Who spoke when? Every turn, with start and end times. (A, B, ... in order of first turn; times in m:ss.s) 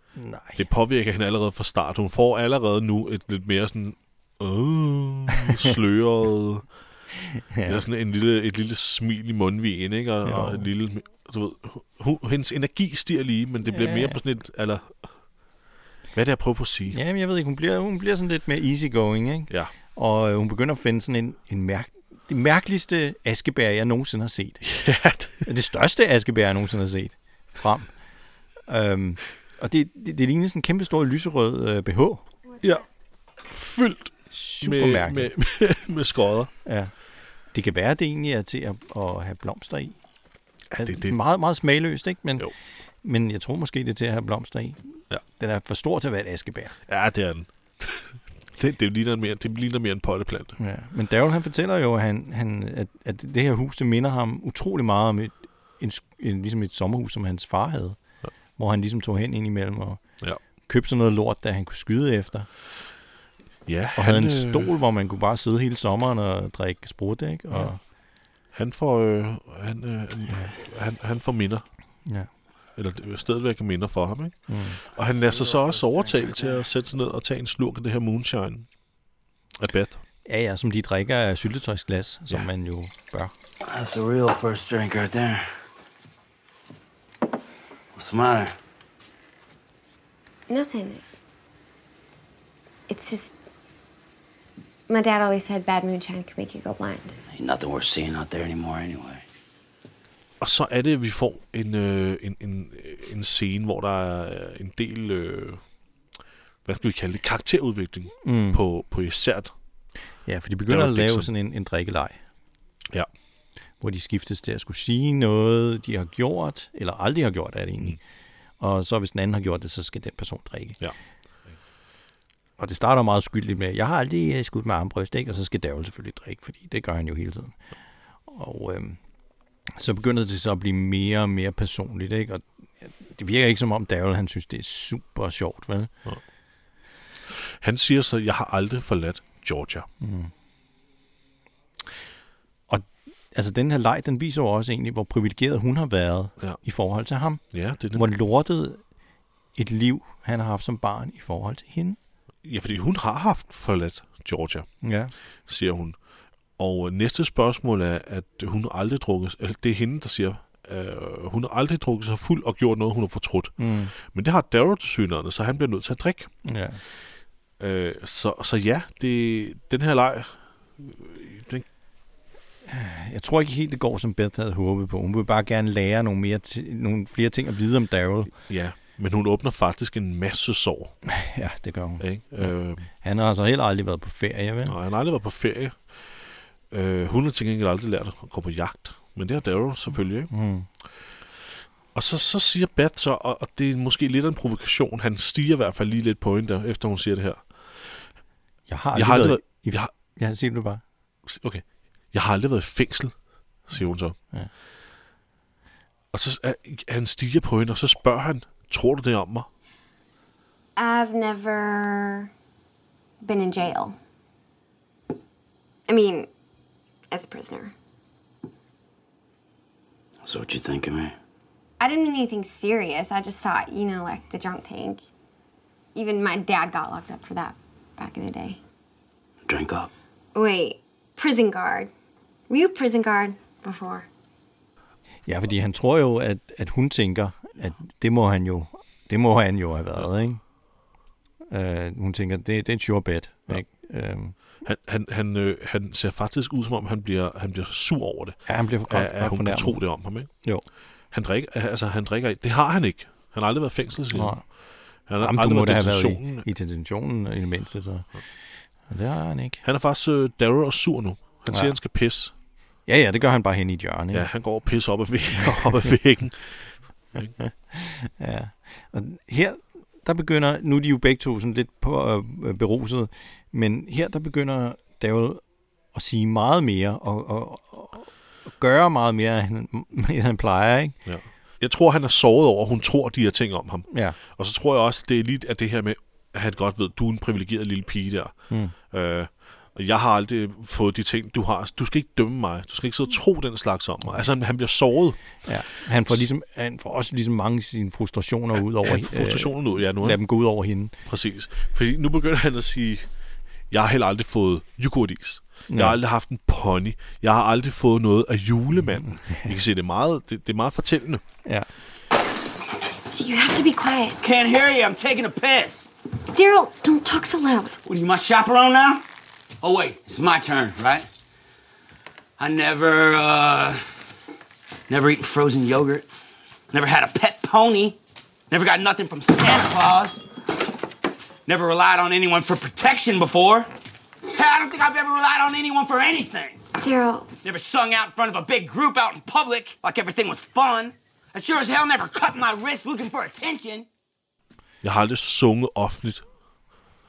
0:00.2-0:00.6 A
0:00.6-0:06.7 B
0:07.2-0:07.8 A
0:07.6-0:15.0 B
0:10.2-0:10.6 A
0:13.7-0:14.2 A
0:16.1-0:17.0 B
0:16.9-0:24.6 A
0:24.6-0:25.5 B
0:25.4-0:27.9 A
0:28.7-0:32.2 A
0:33.5-0:36.5 B
0:34.3-0:35.3 A
0:36.6-0:36.9 A
0:37.5-0:40.0 A
0:40.7-0:41.2 B
0:40.8-0:42.5 A
0:43.0-0:46.7 A
0:46.9-0:50.6 B
0:50.6-0:58.0 A
0:58.6-1:00.0 A
1:00.7-1:02.5 A
1:03.6-1:04.7 B
1:04.0-1:07.8 A
1:08.5-1:11.6 B
1:12.8-1:18.7 B
1:14.5-1:14.8 A
1:15.2-1:16.6 C
1:19.6-1:20.0 B
1:20.2-1:23.3 A
1:23.6-1:25.5 C
1:27.9-1:28.5 C
1:30.5-1:31.0 D
1:32.9-1:33.3 D
1:34.9-1:37.2 D
1:37.3-1:39.2 C
1:40.4-1:45.6 B
1:46.6-1:49.5 B
1:48.2-1:48.6 A
1:50.2-1:52.2 A
1:50.7-1:51.3 B
1:53.8-1:58.0 A
1:58.6-2:00.8 A
2:02.6-2:07.6 A
2:08.3-2:09.0 A
2:09.7-2:15.9 A
2:17.3-2:19.9 B
2:20.0-2:20.3 A
2:22.7-2:28.8 A
2:27.5-2:28.0 B
2:29.6-2:32.0 A
2:32.4-2:34.7 B
2:34.8-2:35.1 A
2:35.5-2:36.0 B
2:36.6-2:46.3 B
2:43.6-2:43.9 A
2:46.4-2:46.8 A
2:47.6-2:51.6 B
2:52.6-2:58.3 A
2:58.5-3:00.9 B
3:01.0-3:04.8 A
3:02.0-3:02.9 B
3:04.6-3:05.8 B
3:06.7-3:10.3 B
3:10.3-3:10.7 A
3:11.9-3:17.4 B
3:18.7-3:20.8 A
3:18.9-3:19.9 B
3:21.2-3:23.1 B
3:23.6-3:24.2 B
3:26.1-3:29.5 B
3:30.8-3:32.3 D
3:33.2-3:34.0 D
3:35.9-3:36.3 D
3:37.1-3:37.7 D
3:40.2-3:41.1 C
3:41.8-3:45.0 D
3:45.9-3:48.6 D
3:49.4-3:49.9 C
3:50.3-3:51.9 D
3:52.5-3:54.1 D
3:55.3-4:00.4 A
4:01.5-4:04.4 A
4:04.6-4:10.3 B
4:08.5-4:09.8 A
4:11.1-4:14.4 B
4:14.1-4:14.4 A
4:15.1-4:16.4 B
4:15.2-4:18.1 A
4:18.9-4:19.6 A
4:19.6-4:22.3 B
4:21.5-4:21.7 A
4:22.8-4:24.3 A
4:24.1-4:27.3 B
4:25.4-4:25.9 A
4:27.4-4:35.4 A
4:35.9-4:41.0 A
4:41.0-4:48.3 B
4:43.9-4:44.2 A
4:48.5-4:48.7 A
4:48.9-4:55.2 B
4:55.4-5:00.9 A
4:58.8-5:00.2 B
5:01.0-5:03.1 B
5:03.7-5:11.2 B
5:05.7-5:06.0 A
5:13.1-5:14.2 D
5:14.2-5:15.9 C
5:16.3-5:17.8 D
5:17.8-5:19.0 C
5:19.6-5:21.1 C
5:22.4-5:23.8 C
5:24.9-5:26.1 C
5:26.7-5:28.0 C
5:28.5-5:30.2 C
5:31.4-5:33.7 C
5:34.3-5:36.6 C
5:36.8-5:37.3 D
5:37.4-5:43.9 C
5:44.8-5:46.2 B